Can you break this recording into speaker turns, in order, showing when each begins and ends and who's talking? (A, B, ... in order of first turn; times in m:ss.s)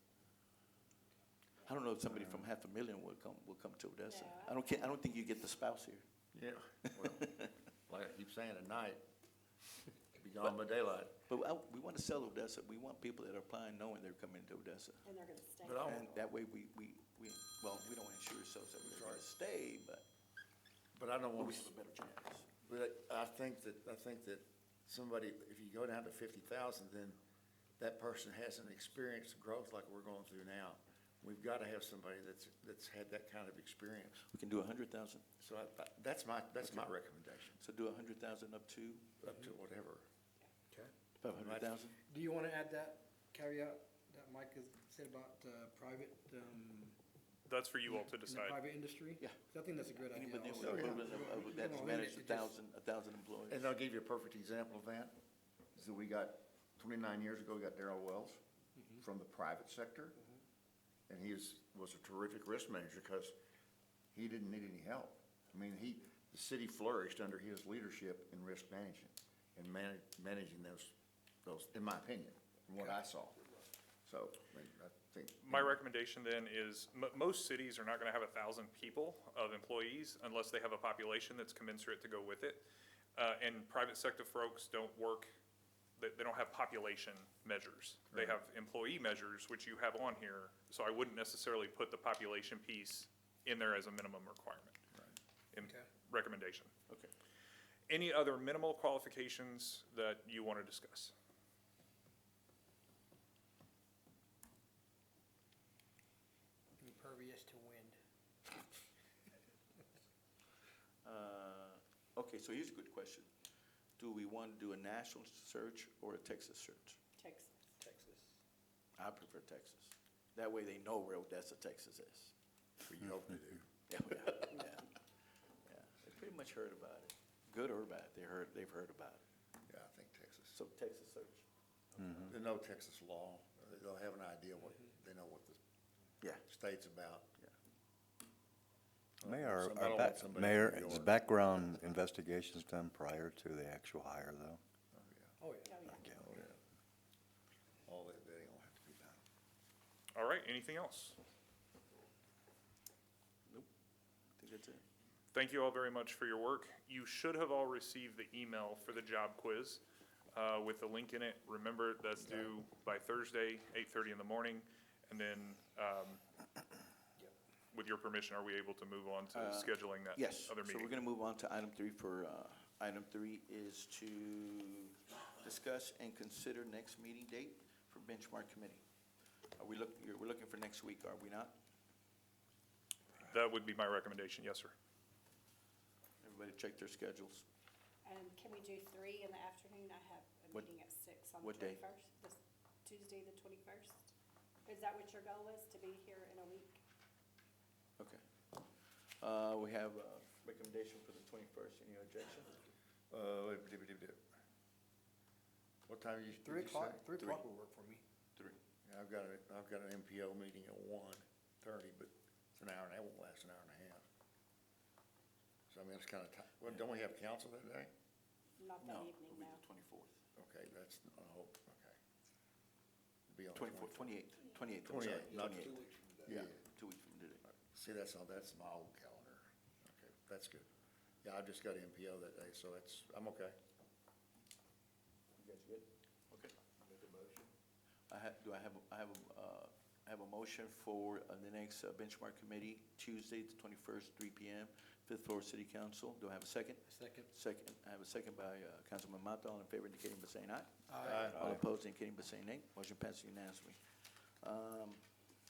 0:01.6-0:06.0 A
0:04.1-0:04.9 B
0:06.3-0:09.0 C
0:07.0-0:07.5 A
0:10.2-0:11.2 C
0:11.3-0:15.1 A
0:15.0-0:16.0 B
0:15.6-0:16.1 C
0:15.8-0:20.0 A
0:18.9-0:19.2 C
0:20.9-0:21.7 C
0:21.4-0:22.5 A
0:22.6-0:27.2 C
0:27.8-0:34.2 C
0:34.3-0:35.2 A
0:35.4-0:37.6 C
0:36.6-0:36.9 A
0:37.6-0:39.1 A
0:39.2-0:40.0 C
0:41.2-0:42.0 A
0:41.4-0:41.8 C
0:42.1-0:47.0 D
0:47.5-0:48.6 E
0:47.9-0:52.6 D
0:49.2-0:53.7 A
0:50.6-0:51.2 C
0:53.5-0:55.1 C
0:55.8-0:58.4 C
0:59.0-1:00.2 C
1:01.1-1:03.3 C
1:04.1-1:13.4 C
1:14.1-1:15.8 C
1:15.4-1:22.6 E
1:23.2-1:25.3 E
1:26.0-1:34.8 E
1:35.5-1:36.7 E
1:37.9-1:41.1 E
1:46.8-1:48.0 D
1:51.0-1:53.3 A
1:54.0-1:57.0 A
1:57.2-1:57.8 B
1:57.8-1:58.3 D
1:59.0-2:02.3 A
2:02.8-2:03.6 C
2:03.9-2:04.9 A
2:05.6-2:09.2 A
2:09.7-2:10.6 C
2:10.5-2:12.3 A
2:12.3-2:15.6 C
2:16.4-2:17.3 C
2:19.2-2:21.2 C
2:19.2-2:24.6 F
2:24.9-2:25.4 C
2:25.4-2:25.7 D
2:25.6-2:26.1 B
2:25.8-2:26.5 F
2:26.2-2:26.6 C
2:27.8-2:29.2 C
2:30.2-2:31.2 E
2:34.4-2:34.8 A
2:35.3-2:46.2 E
2:47.7-2:50.9 E
2:49.3-2:58.8 A
2:59.6-3:01.5 A
3:03.2-3:04.7 E
3:06.2-3:07.4 A
3:08.0-3:14.1 B
3:11.4-3:11.8 A
3:14.6-3:16.8 B
3:18.0-3:18.7 A
3:19.2-3:22.6 A
3:23.1-3:24.2 C
3:25.9-3:27.0 C
3:26.4-3:28.0 D
3:27.2-3:27.4 A
3:28.4-3:28.6 A
3:28.8-3:34.0 C
3:35.7-3:37.9 C
3:38.6-3:39.6 B
3:38.8-3:40.2 A
3:40.4-3:42.0 C
3:43.3-3:44.2 C
3:43.6-3:47.5 A
3:44.8-3:46.6 C
3:47.7-3:50.7 C
3:51.2-3:53.6 C
3:55.4-3:57.5 A
3:58.1-4:15.1 A
4:06.9-4:07.3 D
4:10.9-4:11.2 D
4:11.0-4:11.5 C